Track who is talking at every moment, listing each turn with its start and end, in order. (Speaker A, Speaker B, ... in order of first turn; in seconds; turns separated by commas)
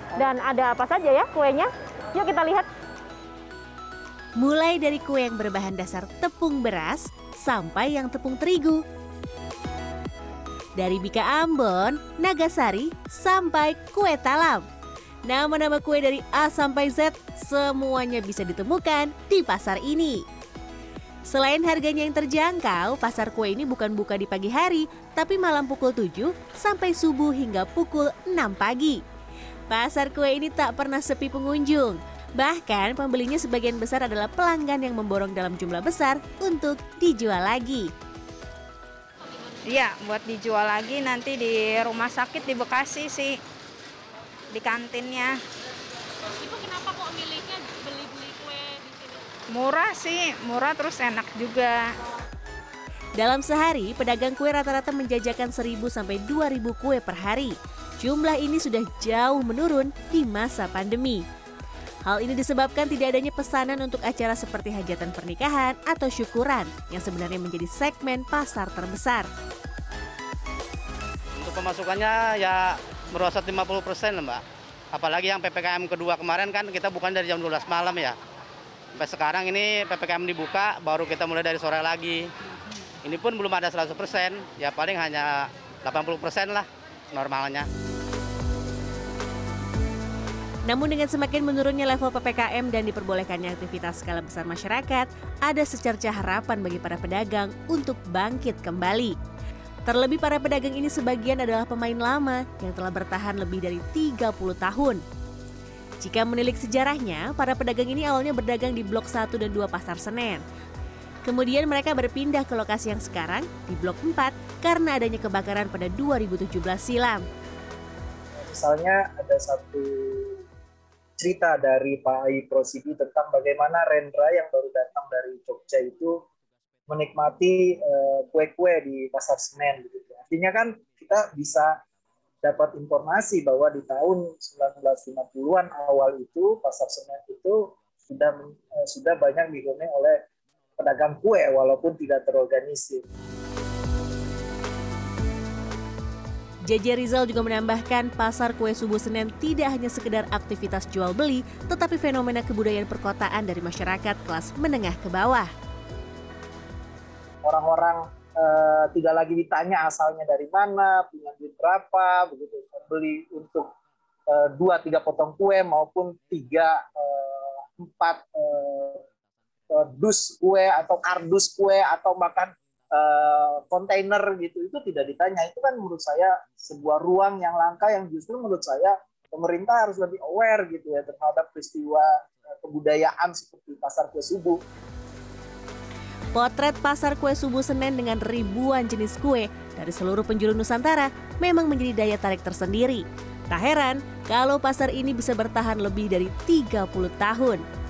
Speaker A: 0.1-2.7, Speaker B: 4.4-8.8, Speaker B: 10.8-14.6, Speaker B: 15.2-20.2, Speaker B: 21.3-29.0, Speaker B: 29.7-37.9, Speaker C: 39.6-43.4, Speaker C: 44.5-45.4, Speaker A: 46.4-49.1, Speaker C: 49.5-51.9, Speaker B: 53.2-61.2, Speaker B: 62.0-69.3, Speaker D: 71.4-78.2, Speaker D: 79.0-82.3, Speaker D: 83.0-87.7, Speaker B: 90.7-99.2, Speaker B: 99.9-105.0, Speaker B: 106.0-110.4, Speaker B: 111.2-117.3, Speaker E: 118.4-120.4, Speaker E: 121.2-126.2, Speaker E: 126.9-131.8, Speaker E: 132.4-140.2, Speaker E: 140.8-143.1, Speaker B: 146.7-155.5, Speaker E: 157.4-163.7, Speaker E: 164.3-169.0, Speaker E: 169.7-184.6, Speaker B: 186.3-197.6